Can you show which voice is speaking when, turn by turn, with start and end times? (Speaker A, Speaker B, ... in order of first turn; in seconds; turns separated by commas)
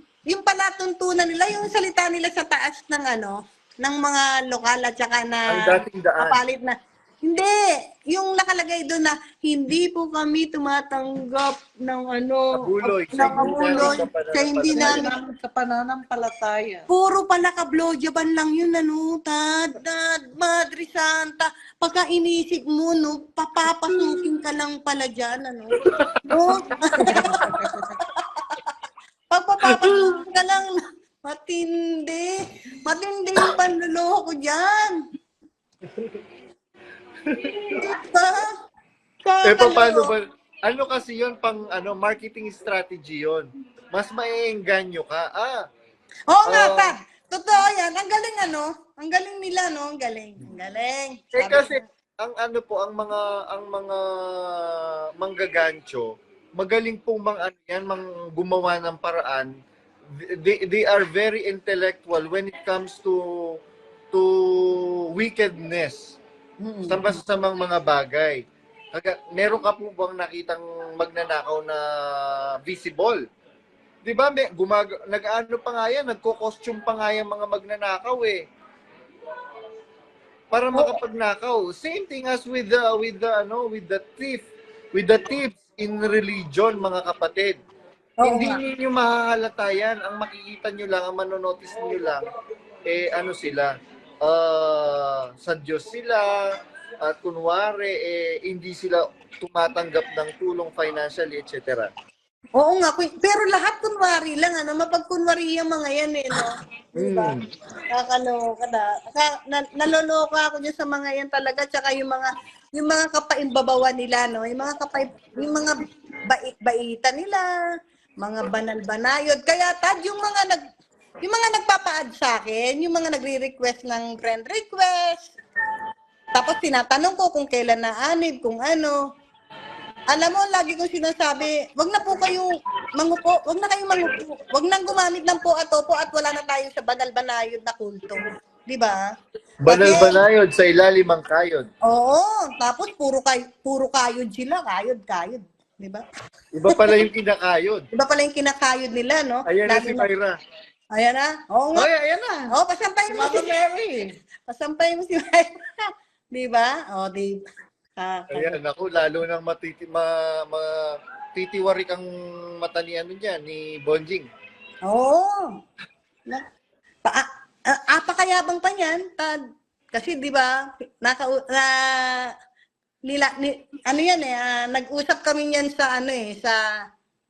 Speaker A: 0.3-15.1, Speaker B: 5.5-6.4, Speaker B: 12.5-15.1, Speaker C: 13.2-14.0, Speaker C: 14.7-16.9, Speaker A: 16.9-28.0, Speaker C: 26.0-26.2, Speaker C: 26.9-27.9, Speaker A: 29.3-30.7, Speaker A: 31.2-35.0, Speaker B: 35.9-36.2, Speaker B: 37.2-37.8, Speaker A: 37.8-38.5, Speaker A: 39.2-40.1, Speaker B: 39.4-45.6, Speaker A: 46.3-51.8, Speaker B: 46.5-46.9, Speaker B: 51.3-59.5, Speaker B: 60.1-63.6, Speaker B: 64.1-66.2, Speaker A: 66.6-67.2, Speaker B: 66.9-68.4, Speaker B: 68.9-73.2, Speaker B: 74.0-78.4, Speaker B: 80.5-87.6, Speaker A: 88.2-88.6, Speaker B: 88.2-92.2, Speaker B: 92.8-101.9, Speaker A: 102.6-107.3, Speaker B: 107.0-107.5, Speaker A: 107.9-117.5, Speaker A: 118.2-120.6, Speaker A: 121.2-125.3, Speaker A: 126.3-129.0, Speaker A: 130.1-139.1, Speaker B: 139.6-141.7, Speaker A: 139.7-140.2, Speaker A: 141.8-146.0, Speaker B: 146.5-147.8, Speaker A: 147.9-150.1, Speaker B: 149.5-150.3, Speaker A: 150.9-151.9, Speaker B: 151.8-152.4, Speaker A: 152.5-153.5, Speaker C: 153.1-154.0, Speaker A: 154.5-155.6, Speaker A: 156.3-157.4, Speaker A: 158.0-158.6, Speaker B: 158.3-164.3, Speaker A: 164.9-165.5, Speaker A: 167.0-169.4, Speaker A: 169.9-172.3, Speaker A: 173.1-176.6